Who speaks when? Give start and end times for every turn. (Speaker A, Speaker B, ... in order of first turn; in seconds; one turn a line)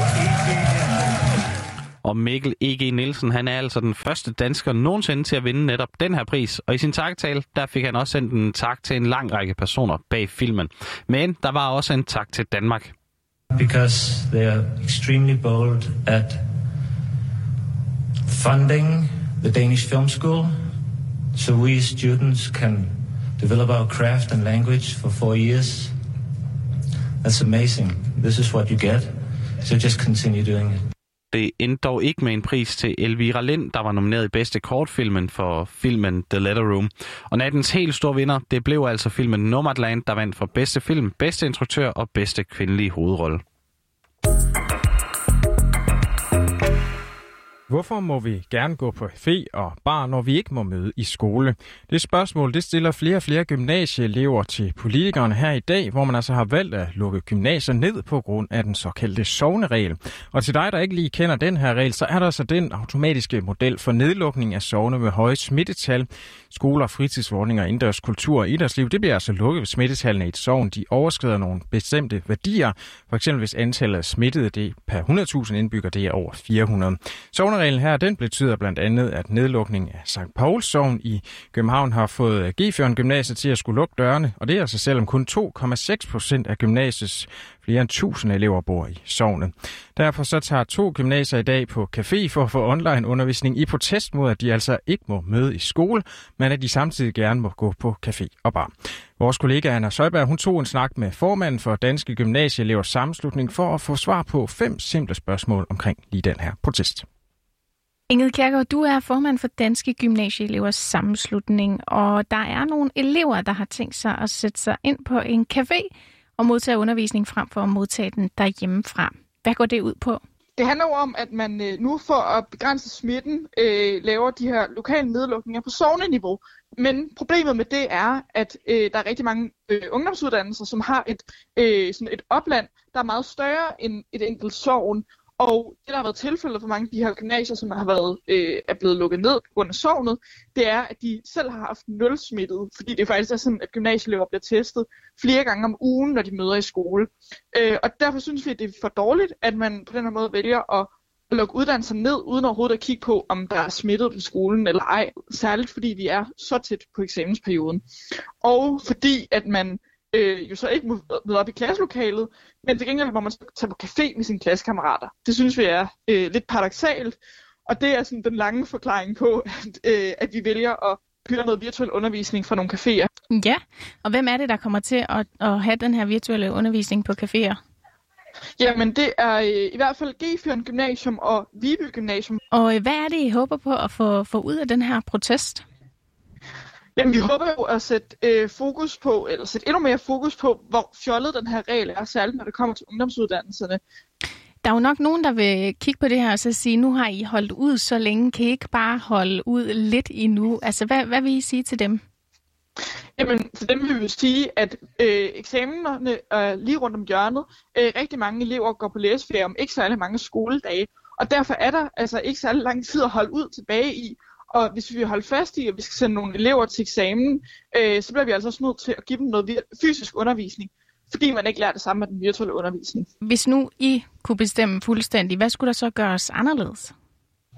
Speaker A: 2.0-12.9
Speaker B: 13.5-16.4
Speaker B: 18.3-20.5
Speaker B: 21.3-25.9
Speaker B: 27.2-30.8
Speaker A: 31.3-43.4
Speaker C: 47.7-107.0
Speaker D: 108.1-120.2
Speaker E: 120.5-157.8
Speaker E: 158.4-173.1
Speaker D: 173.3-177.6
Speaker E: 178.6-182.4
Speaker D: 182.5-185.6
Speaker E: 186.9-193.8
Speaker D: 194.6-202.0
Speaker E: 203.2-223.1
Speaker D: 223.2-226.9